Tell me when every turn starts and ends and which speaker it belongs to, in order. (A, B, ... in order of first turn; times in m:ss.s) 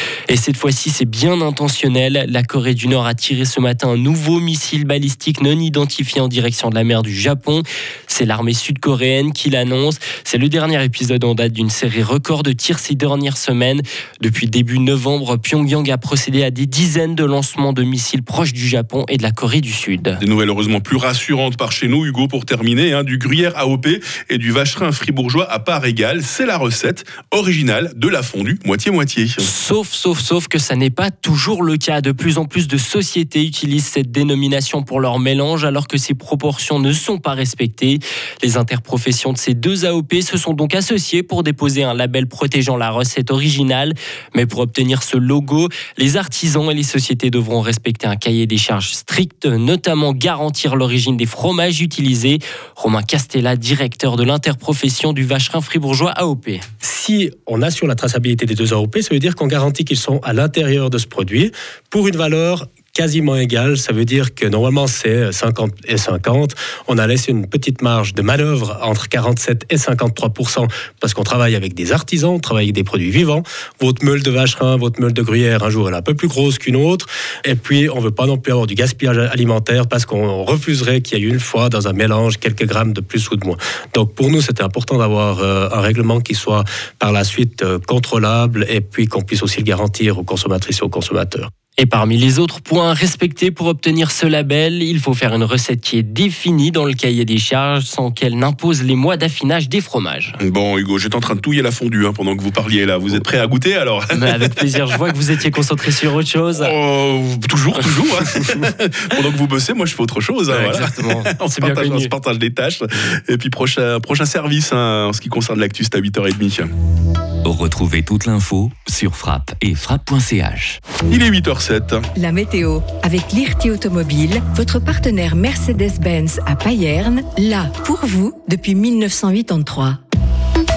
0:00.3-0:20.2 A
0:20.2-0:29.5 B
0:29.4-0:56.6 A
0:56.8-1:31.5 C
1:31.8-1:40.4 A
1:40.4-1:44.6 B
1:44.1-1:46.7 A
1:46.6-1:56.7 B
1:50.5-1:52.1 A
1:57.4-2:00.8 D
2:01.1-2:02.0 B
2:02.2-2:10.0 E